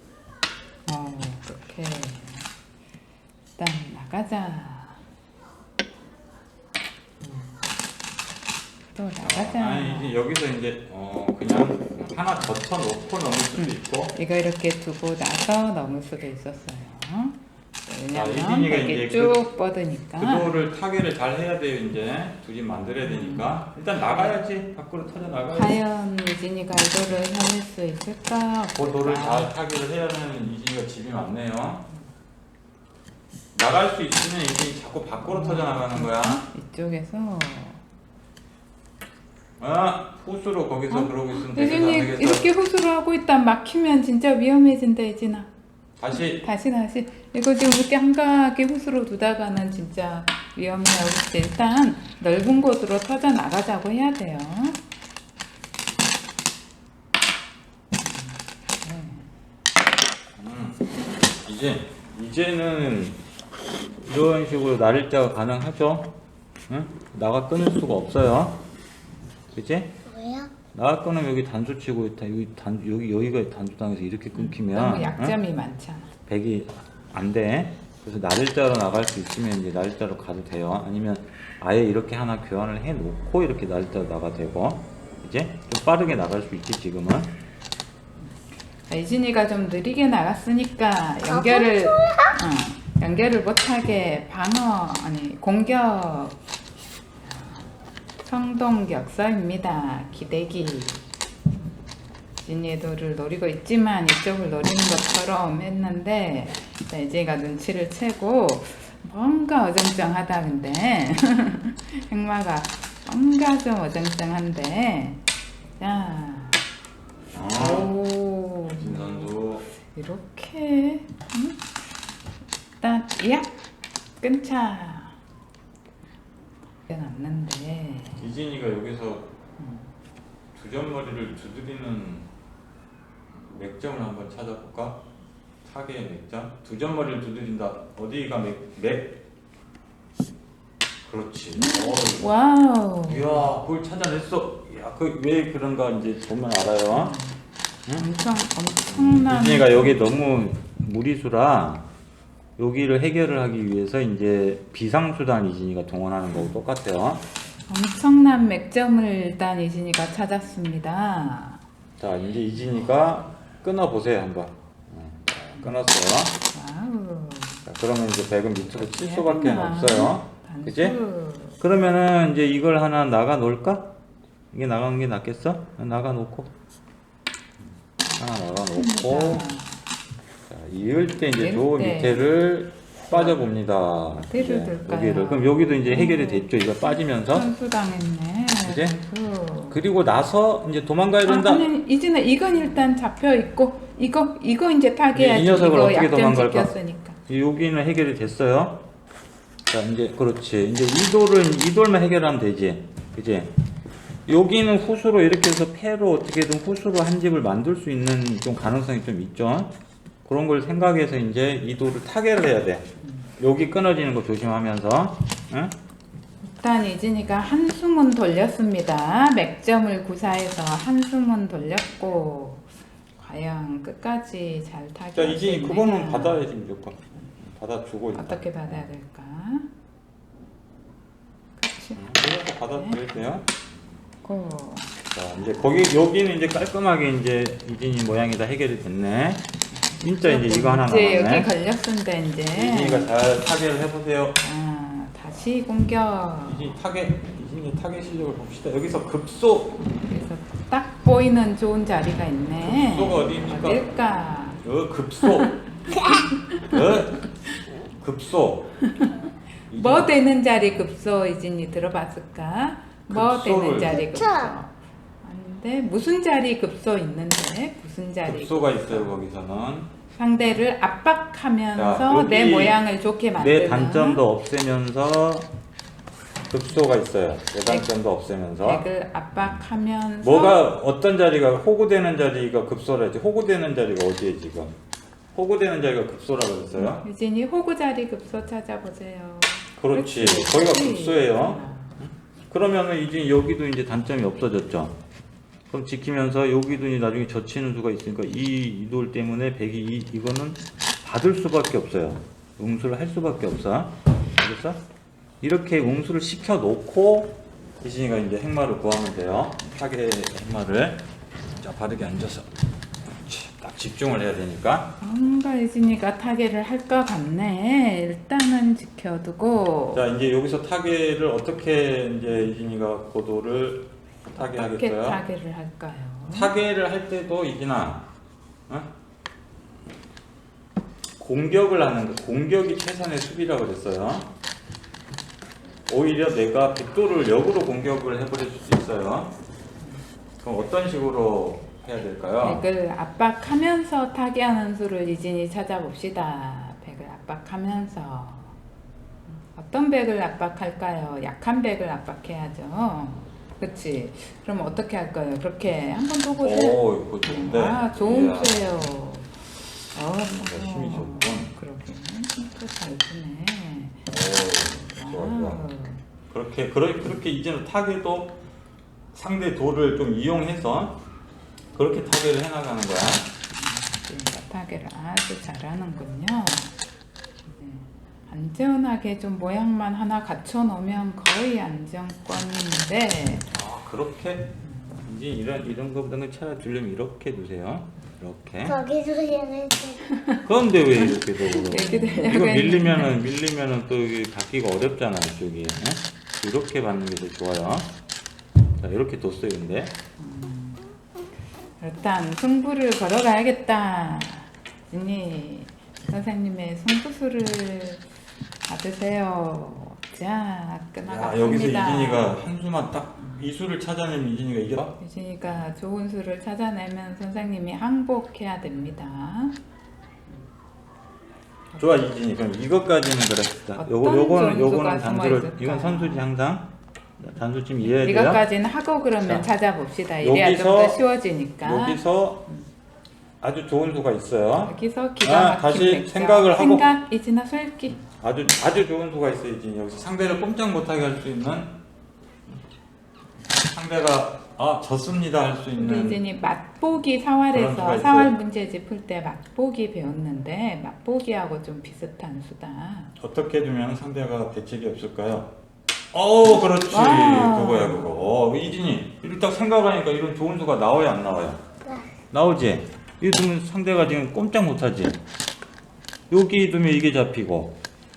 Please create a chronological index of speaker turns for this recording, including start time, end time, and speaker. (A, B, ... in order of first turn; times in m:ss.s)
0:00.8-0:02.5 A
0:03.6-0:05.0 A
0:07.2-0:07.6 A
0:08.9-0:10.1 A
0:09.2-0:14.1 B
0:13.6-0:20.6 A
0:18.1-0:19.4 B
0:20.2-0:25.8 B
0:23.0-0:24.4 A
0:25.5-0:29.5 A
0:28.7-0:31.9 B
0:33.5-0:36.4 B
0:35.2-0:37.8 A
0:39.6-0:42.4 B
0:40.9-0:45.5 A
0:46.0-0:46.4 B
0:46.3-0:54.8 A
0:58.0-0:59.3 A
1:00.4-1:00.8 B
1:01.4-1:03.2 B
1:04.0-1:06.1 B
1:06.7-1:08.6 B
1:09.5-1:10.0 B
1:10.1-1:10.5 C
1:10.7-1:15.4 B
1:14.3-1:16.1 A
1:16.3-1:27.3 B
1:28.9-1:36.4 A
1:31.3-1:32.4 C
1:37.2-1:41.0 A
1:42.4-1:55.2 A
1:55.8-1:56.6 A
1:57.3-1:57.9 B
1:57.5-1:59.3 A
1:58.7-1:59.6 B
1:59.8-2:01.6 A
2:02.8-2:03.6 A
2:04.2-2:05.2 A
2:06.9-2:08.2 A
2:08.2-2:09.3 B
2:09.6-2:09.9 A
2:10.5-2:12.3 B
2:13.3-2:15.0 B
2:15.6-2:19.2 B
2:21.0-2:22.3 B
2:21.6-2:23.5 A
2:23.1-2:27.1 B
2:26.9-2:27.4 A
2:27.9-2:30.2 A
2:28.9-2:31.9 B
2:32.6-2:37.2 B
2:37.7-2:41.6 A
2:42.0-2:46.4 B
2:46.5-2:47.6 A
2:47.6-2:51.0 B
2:48.7-2:51.6 A
2:51.6-2:53.9 B
2:54.5-2:56.5 B
2:58.2-2:59.5 B
2:58.7-2:59.8 A
3:00.5-3:07.5 B
3:01.0-3:02.3 A
3:03.1-3:03.5 A
3:04.2-3:09.8 A
3:08.6-3:09.0 B
3:09.7-3:11.7 B
3:11.2-3:17.2 A
3:15.1-3:16.7 B
3:17.2-3:18.8 B
3:19.7-3:23.5 B
3:24.2-3:29.7 B
3:30.2-3:32.9 B
3:33.0-3:33.3 A
3:33.4-3:35.7 B
3:36.4-3:42.7 A
3:43.2-3:46.4 A
3:45.1-3:48.9 B
3:48.1-3:49.7 A
3:51.6-3:53.0 A
3:52.0-3:53.6 B
3:54.2-3:54.9 A
3:55.1-3:59.5 B
3:59.8-4:03.1 A
4:00.0-4:01.5 B
4:02.5-4:04.4 B
4:04.4-4:06.7 A
4:06.4-4:09.8 B
4:09.8-4:14.6 A
4:12.6-4:13.8 B
4:14.6-4:17.3 B
4:15.2-4:17.0 A
4:18.0-4:18.8 B
4:18.8-4:29.2 A
4:19.7-4:20.1 B
4:23.1-4:24.0 B
4:23.9-4:24.6 C
4:28.2-4:29.9 B
4:30.1-4:34.2 A
4:31.8-4:32.8 B
4:33.4-4:35.5 B
4:36.5-4:38.8 B
4:38.6-4:40.6 A
4:40.2-4:44.8 B
4:45.3-4:47.0 B
4:46.7-4:52.0 A
4:49.8-4:55.0 B
4:55.7-5:04.8 B
5:05.4-5:12.5 B
5:13.0-5:15.0 B
5:15.0-5:20.0 A
5:19.9-5:25.2 B
5:24.3-5:26.5 A
5:26.3-5:28.1 B
5:31.2-5:34.3 B
5:35.9-5:39.3 B
5:40.4-5:42.7 B
5:42.4-5:48.6 A
5:49.3-6:04.1 A
5:56.4-5:58.9 B
6:00.2-6:01.5 B
6:04.1-6:05.6 B
6:04.8-6:06.0 A
6:06.3-6:08.4 B
6:09.1-6:11.0 B
6:11.7-6:13.3 B
6:13.5-6:16.7 A
6:17.5-6:23.5 A
6:23.5-6:28.8 B
6:24.6-6:25.0 A
6:28.7-6:30.1 C
6:30.1-6:30.4 A
6:30.4-6:37.9 B
6:30.9-6:33.1 A
6:38.8-6:39.9 B
6:40.2-6:40.8 A
6:41.8-6:48.0 A
6:48.6-6:52.4 A
6:51.0-6:55.0 B
6:55.0-6:59.6 A
7:01.8-7:08.4 B
7:03.8-7:06.2 A
7:07.8-7:12.6 A
7:10.2-7:11.0 B
7:11.6-7:12.4 B
7:13.4-7:16.9 B
7:14.6-7:18.0 A
7:18.0-7:21.8 B
7:23.5-7:26.2 B
7:25.8-7:33.1 A
7:27.5-7:28.3 B
7:33.2-7:35.5 B
7:36.1-7:41.6 B
7:36.5-7:38.1 A
7:42.3-7:45.2 B
7:46.3-7:47.8 B